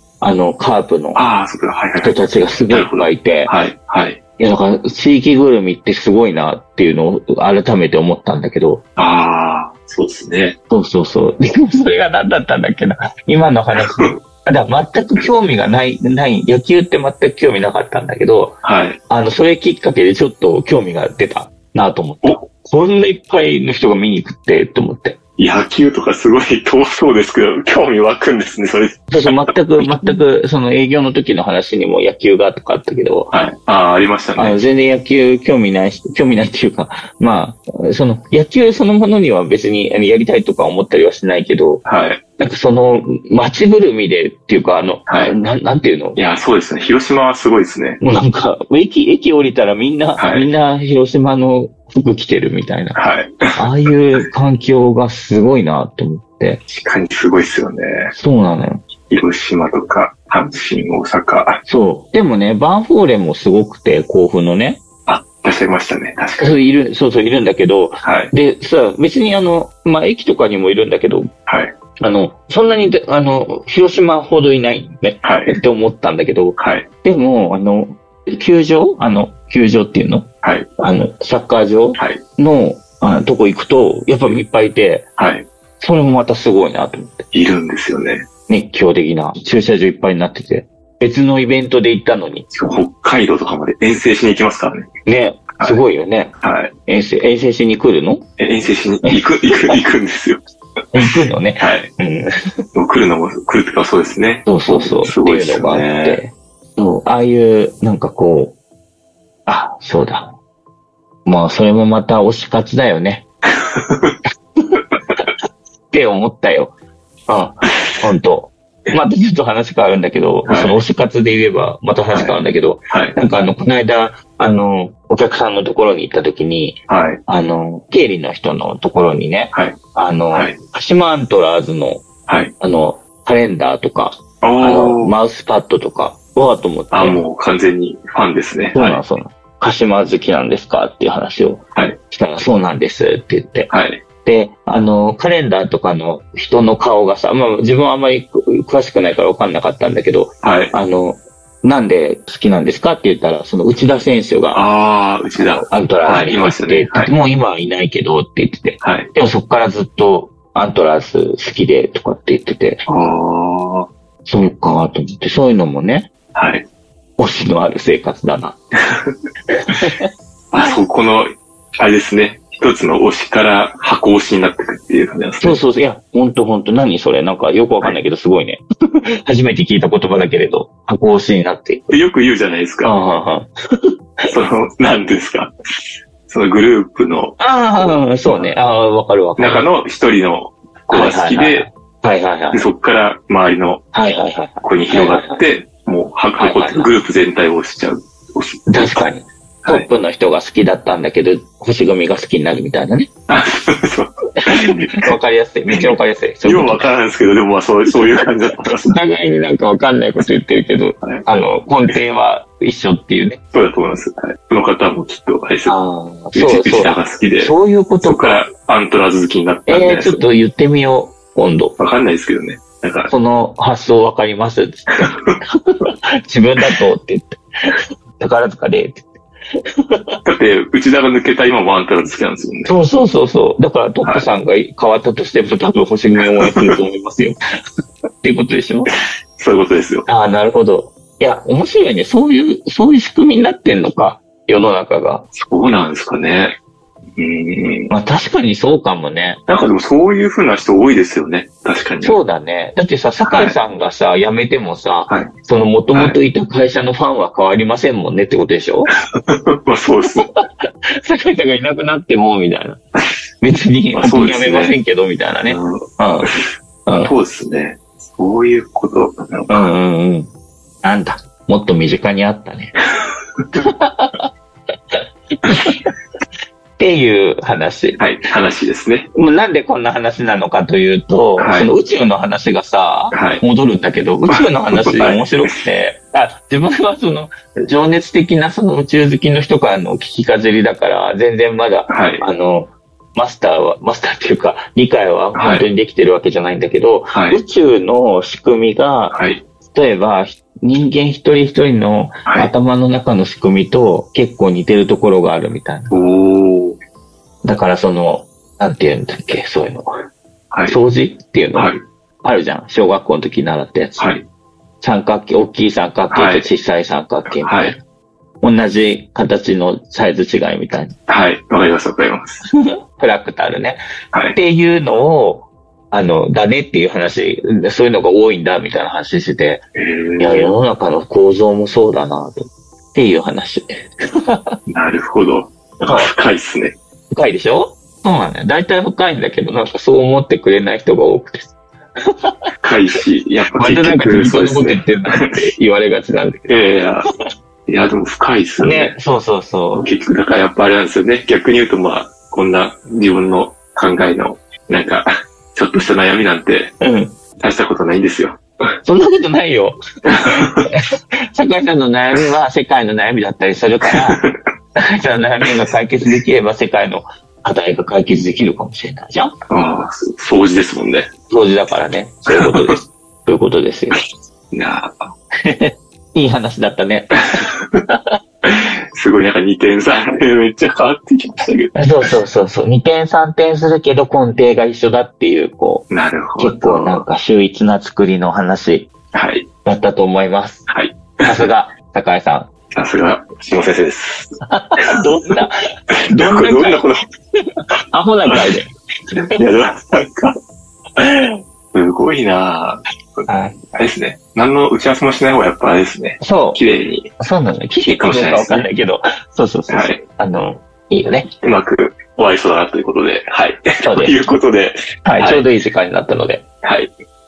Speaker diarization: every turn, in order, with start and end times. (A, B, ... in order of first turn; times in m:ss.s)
0:00.2-0:01.2 A
0:01.2-0:02.2 B
0:02.0-0:03.5 A
0:02.7-0:04.2 B
0:04.4-0:08.8 A
0:09.0-0:10.6 B
0:10.7-0:25.2 A
0:18.6-0:19.0 B
0:25.4-0:29.9 B
0:29.1-0:33.3 A
0:33.3-0:34.6 B
0:34.4-0:41.8 A
0:41.8-0:42.2 B
0:42.4-0:46.2 A
0:45.1-0:45.4 B
0:46.2-0:48.0 B
0:48.0-0:53.0 A
0:50.2-0:50.5 B
0:53.0-0:53.6 B
0:53.6-0:56.6 A
0:56.7-0:58.1 B
0:58.1-0:58.8 A
0:59.1-1:01.6 B
1:01.7-1:04.8 A
1:05.1-1:06.6 B
1:06.4-1:11.3 A
1:08.0-1:08.3 B
1:11.5-1:11.7 B
1:12.0-1:25.1 A
1:15.2-1:15.6 B
1:16.6-1:16.9 B
1:20.4-1:20.7 B
1:22.0-1:22.2 B
1:25.2-1:25.5 B
1:25.8-1:27.3 A
1:27.3-1:28.2 B
1:28.5-1:32.5 A
1:32.5-1:34.9 B
1:35.1-1:36.3 A
1:36.4-1:36.7 B
1:36.9-1:38.2 A
1:38.4-1:40.4 B
1:39.0-1:39.8 A
1:40.9-1:42.3 A
1:41.0-1:41.9 B
1:42.7-1:46.2 B
1:44.5-1:48.6 A
1:49.5-1:50.3 A
1:51.2-1:53.2 A
1:53.6-1:54.2 B
1:54.7-1:55.3 A
1:55.9-1:56.7 A
1:57.3-2:12.0 A
2:00.5-2:00.8 B
2:02.9-2:03.2 B
2:06.9-2:07.2 B
2:10.3-2:10.6 B
2:12.3-2:12.5 B
2:12.6-2:17.2 A
2:14.4-2:15.1 B
2:16.9-2:19.0 B
2:18.8-2:23.7 A
2:23.7-2:24.0 B
2:24.2-2:34.6 A
2:30.4-2:30.7 B
2:34.5-2:37.2 B
2:35.3-2:42.8 A
2:38.8-2:39.1 B
2:42.9-2:43.9 B
2:44.2-2:46.1 A
2:46.4-2:46.7 B
2:47.2-2:48.6 A
2:49.5-2:50.1 A
2:50.5-2:55.6 B
2:55.4-2:58.6 A
2:59.3-3:01.9 A
3:01.9-3:02.9 B
3:02.8-3:04.2 A
3:04.3-3:05.5 B
3:06.3-3:08.5 B
3:07.4-3:09.7 A
3:09.4-3:11.7 B
3:10.9-3:12.7 A
3:12.5-3:13.8 B
3:13.9-3:15.4 A
3:14.6-3:19.1 B
3:16.4-3:16.9 A
3:18.7-3:23.1 A
3:23.3-3:25.1 B
3:24.4-3:26.9 A
3:25.7-3:29.0 B
3:28.8-3:33.4 A
3:33.5-3:35.8 B
3:35.7-3:38.4 A
3:36.3-3:40.2 B
3:39.7-3:41.8 A
3:41.8-3:43.1 B
3:43.1-3:49.1 A
3:45.0-3:45.4 B
3:49.9-3:50.2 A
3:50.2-3:52.8 B
3:52.7-3:57.4 A
3:56.4-3:56.7 B
3:58.2-3:58.9 A
3:59.4-4:00.1 B
4:00.1-4:05.3 A
4:05.3-4:06.6 B
4:07.2-4:07.9 B
4:07.9-4:09.4 A
4:09.5-4:12.2 B
4:12.0-4:18.9 A
4:13.3-4:13.6 B
4:19.2-4:20.3 B
4:20.1-4:20.4 A
4:21.0-4:22.8 A
4:23.4-4:26.3 A
4:23.9-4:24.8 B
4:25.5-4:29.8 B
4:26.9-4:27.1 A
4:29.5-4:30.3 A
4:30.8-4:32.8 A
4:33.6-4:34.2 A
4:34.9-4:35.9 A
4:36.8-4:38.0 A
4:38.0-4:39.1 B
4:39.1-4:59.2 A
4:41.4-4:41.7 B
4:43.1-4:43.4 B
4:44.3-4:45.5 B
4:51.9-4:52.2 B
4:55.4-4:55.7 B
4:57.1-4:57.4 B
4:59.1-4:59.4 B
4:59.7-5:05.9 A
5:02.3-5:02.5 B
5:05.9-5:06.8 B
5:07.4-5:09.9 A
5:10.5-5:10.8 B
5:10.7-5:14.1 A
5:11.6-5:11.8 B
5:14.0-5:14.2 B
5:14.8-5:17.8 A
5:16.1-5:16.5 B
5:17.4-5:17.8 B
5:18.4-5:21.0 A
5:21.1-5:22.4 B
5:22.9-5:23.8 A
5:24.3-5:29.6 A
5:29.8-5:30.5 B
5:30.2-5:34.6 A
5:34.7-5:36.8 B
5:35.8-5:36.1 A
5:37.1-5:41.5 A
5:42.0-5:42.5 A
5:42.6-5:45.3 B
5:43.6-5:46.5 A
5:46.5-5:47.1 B
5:47.7-5:49.0 B
5:48.6-5:49.9 A
5:49.7-5:56.8 B
5:56.8-5:57.2 A
5:57.4-5:58.4 B
5:58.8-6:04.2 A
6:00.1-6:00.6 B
6:03.9-6:04.3 B
6:04.8-6:09.4 A
6:09.5-6:11.1 B
6:11.3-6:14.0 A
6:14.5-6:15.1 B
6:15.4-6:18.0 A
6:18.4-6:22.1 B
6:21.8-6:28.9 A
6:25.9-6:27.0 B
6:29.1-6:29.5 B
6:29.6-6:30.7 A
6:30.7-6:31.5 B
6:31.2-6:32.5 A
6:32.7-6:34.9 B
6:34.5-6:35.6 A
6:36.0-6:37.0 B
6:36.1-6:36.8 A
6:37.9-6:38.7 A
6:39.3-6:40.4 B
6:41.7-6:47.1 B
6:43.3-6:43.6 A
6:46.2-6:46.6 A
6:47.2-6:51.3 A
6:47.9-6:48.7 B
6:49.7-6:50.0 B
6:51.4-6:55.4 B
6:53.8-6:54.2 A
6:55.0-6:56.4 A
6:56.6-6:56.9 B